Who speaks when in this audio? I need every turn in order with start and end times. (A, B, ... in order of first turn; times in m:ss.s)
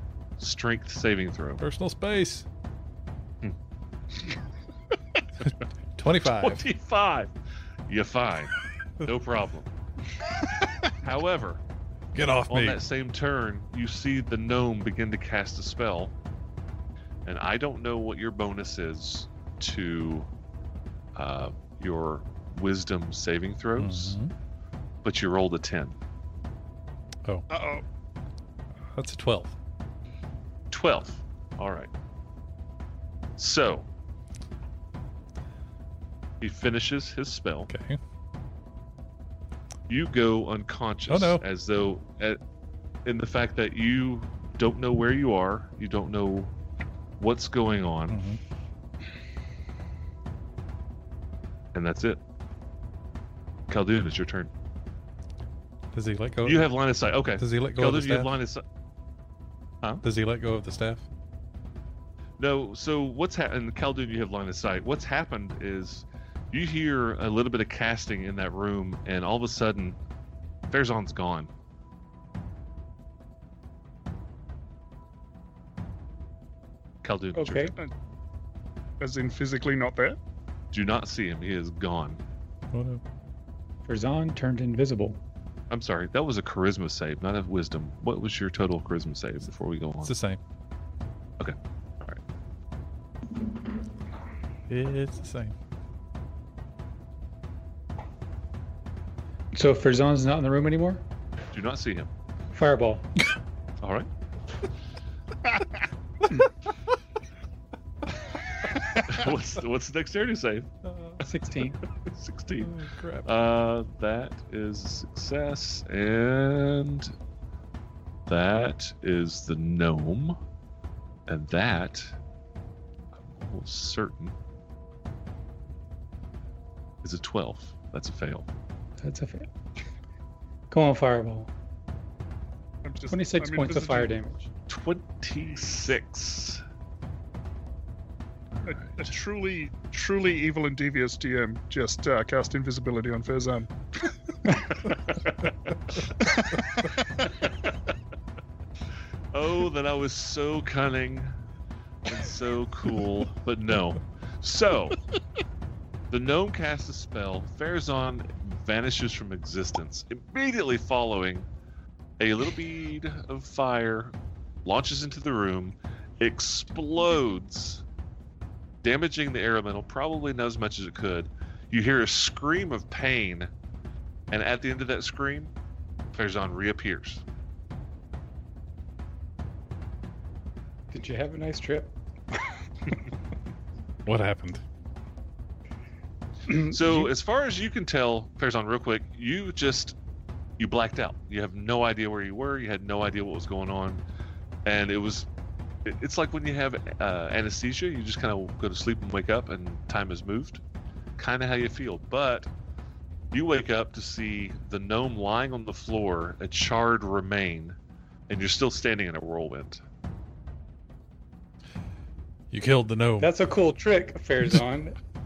0:00.4-0:01.6 A
0:01.6-0:02.5 B
0:05.4-0:06.6 B
0:06.2-0:07.3 A
0:07.9-0:09.7 A
0:10.9-0:11.6 A
0:12.1-0:12.8 B
0:12.5-0:16.1 A
0:17.2-0:20.3 A
0:21.1-0:24.2 A
0:23.8-0:24.3 B
0:25.0-0:26.0 A
0:27.5-0:27.8 C
0:28.9-0:29.5 B
0:30.7-0:31.9 A
0:33.4-0:33.9 A
0:36.4-0:37.7 A
0:37.7-0:38.0 B
0:39.9-0:42.4 A
0:41.1-0:41.4 B
0:43.0-0:46.6 A
0:47.2-0:48.2 A
0:48.1-0:48.4 B
0:51.7-0:52.2 A
0:53.7-0:54.5 A
0:55.9-0:56.7 B
0:56.4-0:58.6 A
0:57.4-0:58.3 B
1:00.0-1:01.0 B
1:02.4-1:10.0 A
1:10.6-1:11.5 A
1:17.0-1:17.7 A
1:17.3-1:17.7 D
1:19.0-1:20.2 C
1:20.7-1:22.2 A
1:22.7-1:23.0 B
1:23.9-1:25.2 D
1:25.7-1:30.1 A
1:30.0-1:30.4 B
1:31.4-1:32.2 A
1:34.7-1:35.5 B
1:39.5-1:41.0 D
1:41.5-1:42.1 A
1:42.5-1:43.1 D
1:43.8-1:44.1 A
1:49.0-1:50.7 A
1:50.8-1:51.2 B
1:51.2-1:51.8 D
1:51.9-1:57.1 A
1:52.6-1:53.3 B
1:58.3-2:00.4 A
2:01.3-2:02.1 A
2:03.1-2:04.4 A
2:07.0-2:08.5 A
2:09.0-2:09.5 D
2:10.7-2:11.5 D
2:12.8-2:14.1 C
2:13.1-2:14.4 D
2:14.7-2:16.6 A
2:18.5-2:19.1 A
2:18.6-2:25.3 C
2:26.2-2:27.5 C
2:29.3-2:31.4 A
2:32.0-2:35.0 A
2:36.1-2:41.5 A
2:42.2-2:47.8 A
2:48.8-2:53.5 A
2:54.3-2:55.5 A
2:56.1-2:57.2 A
3:00.9-3:02.4 D
3:04.0-3:04.6 B
3:06.5-3:07.1 D
3:06.5-3:10.0 A
3:10.6-3:14.0 A
3:14.6-3:15.3 A
3:15.8-3:20.6 A
3:21.2-3:22.5 A
3:23.3-3:27.8 A
3:28.3-3:29.8 A
3:32.5-3:33.3 B
3:33.2-3:35.0 D